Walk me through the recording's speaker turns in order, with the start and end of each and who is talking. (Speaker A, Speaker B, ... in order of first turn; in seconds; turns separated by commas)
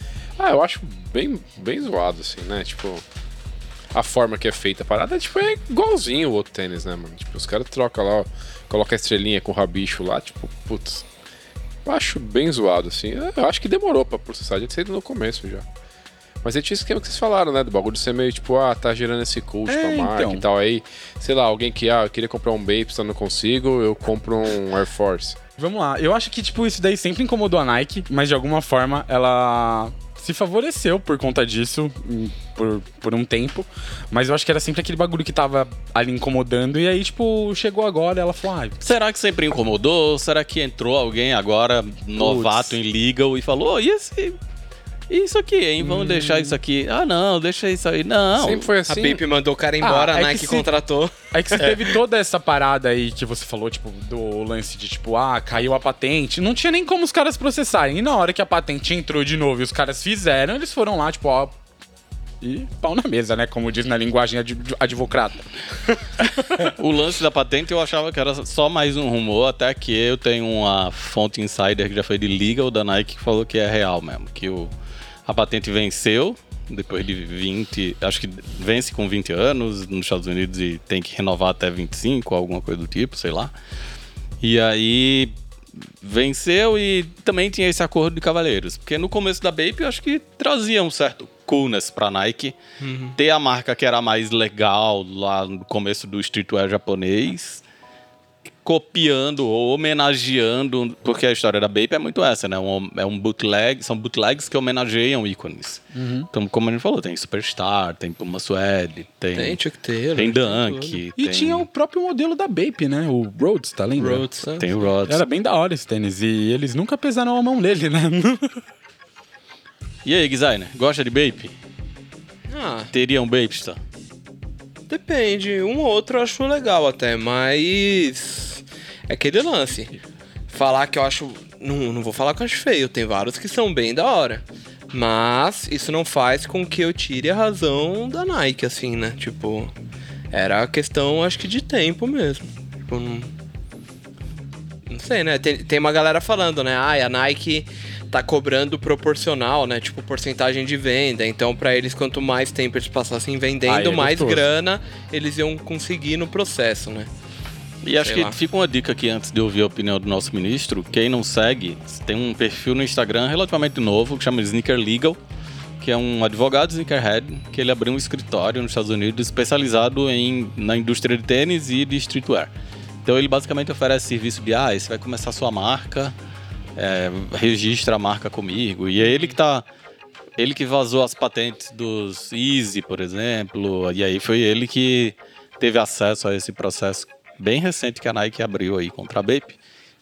Speaker A: 0.4-3.0, Speaker A: 3.9-11.0, Speaker A: 11.8-15.7, Speaker A: 16.4-25.4, Speaker B: 19.7-20.4, Speaker B: 25.6-38.8, Speaker C: 38.8-44.4, Speaker B: 42.2-42.8, Speaker C: 45.1-48.7, Speaker B: 45.8-46.5, Speaker A: 48.4-49.2, Speaker D: 48.9-51.8, Speaker B: 49.8-50.7, Speaker B: 51.3-61.5, Speaker B: 62.4-65.5, Speaker C: 66.5-74.7, Speaker C: 75.2-83.5, Speaker C: 84.4-85.3, Speaker C: 86.0-92.5, Speaker D: 92.8-93.2, Speaker C: 93.2-97.6, Speaker C: 98.6-109.6, Speaker B: 105.9-106.3, Speaker D: 109.3-111.0, Speaker C: 110.1-111.7, Speaker B: 111.2-114.3, Speaker D: 114.0-114.7, Speaker C: 114.5-115.2, Speaker B: 115.1-118.6, Speaker C: 120.0-121.5, Speaker D: 122.5-122.9, Speaker C: 122.9-123.8, Speaker D: 124.9-130.0, Speaker D: 130.5-139.7, Speaker D: 140.3-143.3, Speaker D: 144.9-157.1, Speaker B: 153.7-154.4, Speaker C: 157.8-165.2, Speaker D: 158.0-158.4, Speaker C: 165.8-172.5, Speaker C: 173.0-176.1, Speaker C: 176.8-179.6, Speaker D: 179.0-179.3, Speaker C: 180.4-189.6